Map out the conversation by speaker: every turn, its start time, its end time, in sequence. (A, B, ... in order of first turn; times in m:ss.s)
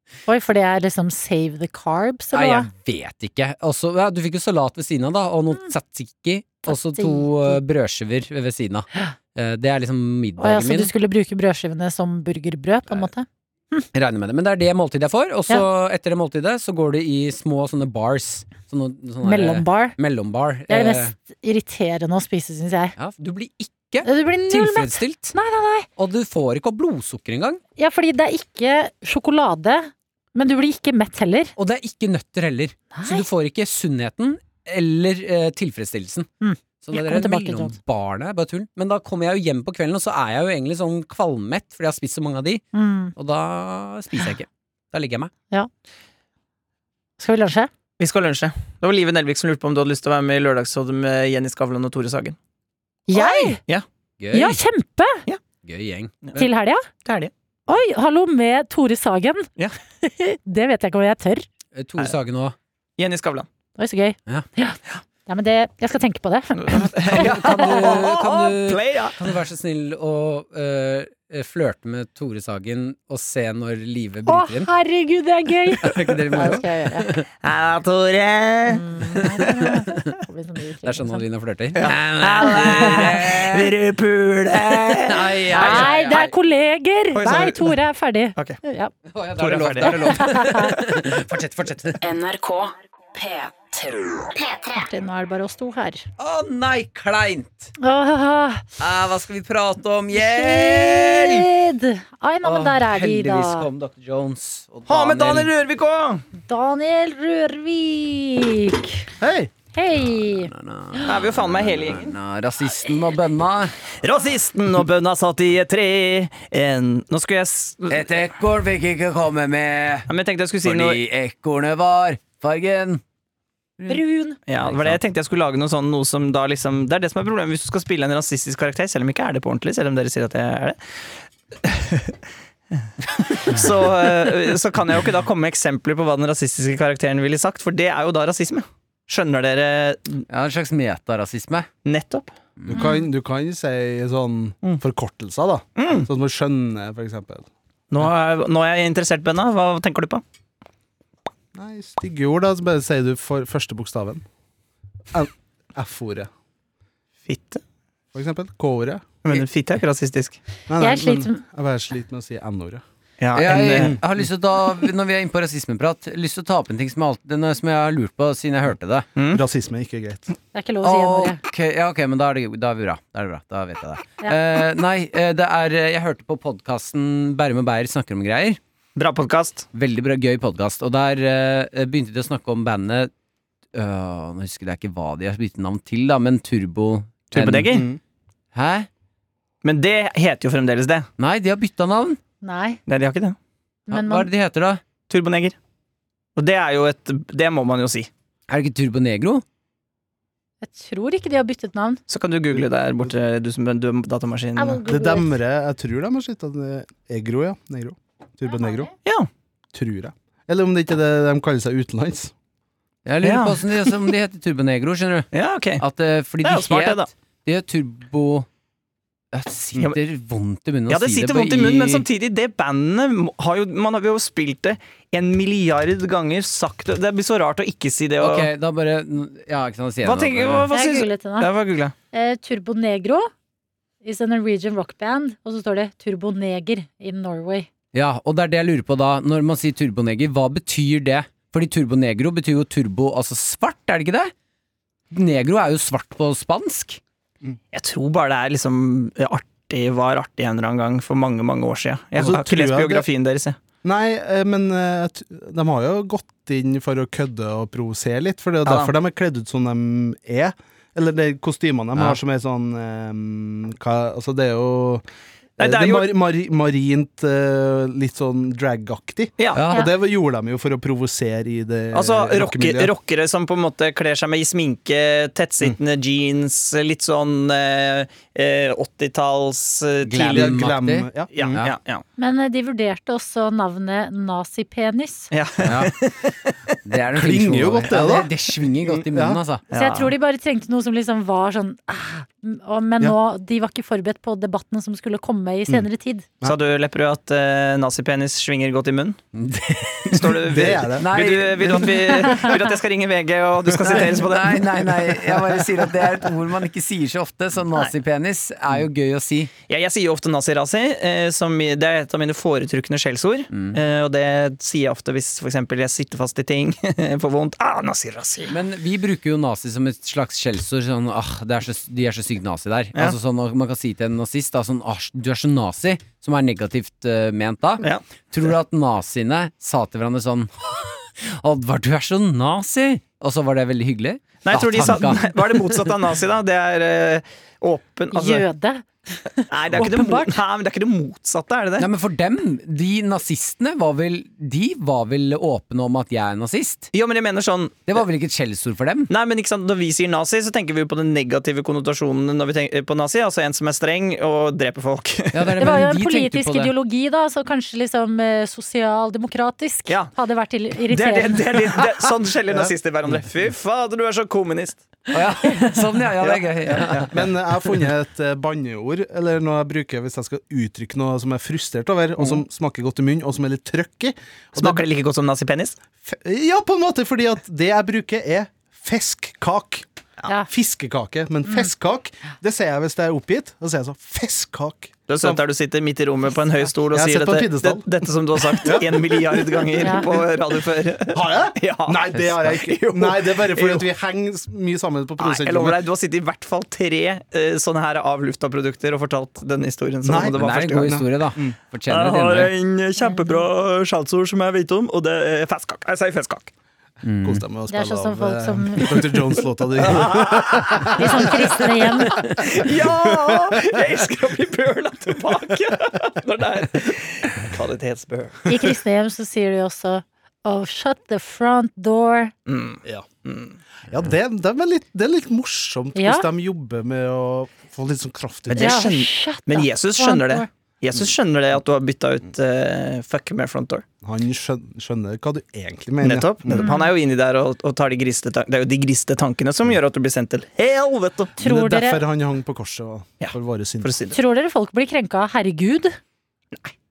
0:00.3-0:02.7 A
0:02.3-0:10.9 B
0:06.6-0:07.6 A
0:10.4-0:13.8 A
0:13.9-0:21.1 B
0:19.2-0:20.0 A
0:20.7-0:23.0 A
0:23.0-0:25.3 B
0:24.0-0:25.9 A
0:26.0-0:27.6 B
0:27.8-0:31.5 A
0:31.6-0:36.3 B
0:32.9-0:33.2 A
0:36.4-0:37.8 A
0:36.8-0:42.6 B
0:42.7-0:43.1 A
0:43.2-0:45.3 B
0:47.2-0:47.7 A
0:48.0-0:52.4 C
0:53.1-0:53.6 A
0:53.1-0:53.8 C
0:54.2-0:54.6 B
0:54.3-0:55.2 A
0:55.6-0:56.4 B
0:56.3-0:56.9 A
0:57.0-0:57.3 C
0:57.7-0:59.5 A
1:00.0-1:01.5 A
1:01.7-1:02.6 B
1:03.0-1:03.5 C
1:03.8-1:07.7 A
1:06.6-1:09.2 C
1:07.0-1:14.7 B
1:14.2-1:17.1 A
1:15.8-1:17.2 B
1:17.4-1:18.8 C
1:18.7-1:21.2 A
1:19.4-1:20.1 B
1:20.8-1:23.7 B
1:21.7-1:25.9 C
1:22.4-1:23.0 A
1:25.0-1:26.3 B
1:25.5-1:28.9 A
1:27.1-1:27.8 C
1:29.0-1:32.0 B
1:29.4-1:30.0 C
1:29.8-1:30.8 A
1:32.0-1:34.3 D
1:34.6-1:36.0 A
1:36.2-1:37.7 B
1:37.8-1:38.7 A
1:38.8-1:41.5 B
1:40.1-1:43.7 A
1:42.4-1:45.5 B
1:44.9-1:46.2 C
1:46.5-1:49.1 A
1:49.2-1:49.5 E
1:49.7-1:50.5 A
1:50.0-1:53.8 B
1:51.0-1:52.1 C
1:54.0-1:58.1 C
1:57.9-2:00.1 B
2:00.1-2:01.0 C
2:00.6-2:03.0 B
2:03.9-2:04.4 A
2:04.5-2:10.8 C
2:04.6-2:05.0 B
2:11.6-2:12.2 C
2:13.2-2:20.2 C
2:20.3-2:21.7 B
2:21.8-2:22.3 C
2:22.7-2:27.5 E
2:22.7-2:23.1 A
2:25.8-2:26.1 C
2:27.9-2:30.2 C
2:31.5-2:34.2 E
2:35.1-2:36.3 E
2:37.3-2:37.6 C
2:38.1-2:39.2 E
2:39.2-2:40.4 C
2:40.7-2:42.8 E
2:40.8-2:41.4 A
2:43.2-2:43.9 C
2:43.3-2:49.0 B
2:43.5-2:44.0 E
2:49.2-2:49.4 C
2:49.3-2:50.3 E
2:50.5-2:51.4 A
2:50.8-2:58.6 B
2:59.0-2:59.7 C
2:59.7-3:03.1 B
3:03.7-3:07.8 B
3:07.3-3:07.8 C
3:07.7-3:08.0 E
3:08.5-3:08.9 B
3:09.6-3:11.1 C
3:11.2-3:12.2 B
3:12.4-3:12.8 A
3:12.9-3:13.4 C
3:13.9-3:14.3 A
3:13.9-3:14.8 B
3:15.1-3:15.6 C
3:16.4-3:18.1 C
3:18.5-3:19.4 B
3:20.6-3:22.0 A
3:22.1-3:24.8 C
3:24.6-3:25.4 A
3:24.8-3:28.9 E
3:28.5-3:28.9 A
3:29.0-3:29.3 C
3:29.7-3:32.3 E
3:33.0-3:38.5 B
3:33.2-3:34.1 C
3:35.3-3:35.8 C
3:36.4-3:37.1 C
3:39.3-3:42.0 B
3:40.9-3:48.5 C
3:48.2-3:50.7 B
3:50.0-3:51.9 C
3:50.7-3:51.5 A
3:52.1-3:53.3 A
3:54.0-3:57.7 A
3:57.9-4:04.3 B
4:05.1-4:07.0 B
4:07.7-4:13.6 C
4:12.2-4:13.0 E
4:13.8-4:25.0 E
4:18.6-4:18.9 C
4:25.6-4:26.1 C
4:25.6-4:32.9 E
4:29.4-4:29.6 C
4:29.5-4:29.8 B
4:31.9-4:40.7 C
4:40.0-4:41.7 B
4:40.2-4:41.6 E
4:41.3-4:42.0 C
4:42.2-4:45.3 A
4:45.3-4:46.8 C
4:45.6-4:45.9 B
4:46.8-4:49.6 B
4:47.1-4:48.3 E
4:48.8-4:49.4 E
4:49.7-4:50.1 C
4:49.7-4:56.3 A
4:56.4-4:59.2 C
4:59.3-5:00.3 B
5:00.0-5:05.1 C
5:00.5-5:01.1 E
5:01.0-5:02.6 B
5:03.8-5:09.5 B
5:09.7-5:18.5 C
5:13.5-5:13.8 B
5:18.5-5:35.9 B
5:34.4-5:38.4 C
5:38.1-5:40.4 A
5:39.5-5:41.9 C
5:41.8-5:46.9 B
5:46.9-5:47.9 C
5:47.9-5:49.1 B
5:49.1-5:55.6 C
5:55.3-5:56.7 B
5:55.6-6:01.6 A
6:00.9-6:04.8 C
6:05.1-6:07.3 B
6:06.2-6:07.1 C
6:07.1-6:14.8 E
6:14.6-6:15.8 C
6:16.0-6:19.8 E
6:20.5-6:25.4 E
6:25.1-6:33.8 C
6:26.9-6:27.8 E
6:28.5-6:30.2 E
6:29.8-6:30.1 A
6:31.1-6:35.8 E
6:35.2-6:41.0 C
6:40.0-6:41.6 E
6:40.3-6:42.5 B
6:41.9-6:46.5 C
6:43.0-6:43.4 A
6:47.0-6:47.4 B
6:47.2-6:51.5 E
6:47.7-6:49.0 A
6:49.8-6:58.6 C
6:51.0-6:52.2 A
6:52.6-6:53.6 E
6:58.5-7:02.3 A
7:02.4-7:03.6 C
7:03.9-7:08.9 E
7:05.9-7:06.2 A
7:08.5-7:13.8 C
7:08.5-7:10.5 A
7:14.0-7:16.7 E
7:16.0-7:21.3 C
7:16.5-7:16.9 A
7:21.4-7:24.0 E
7:21.4-7:22.0 A
7:23.2-7:24.2 C
7:24.1-7:26.0 A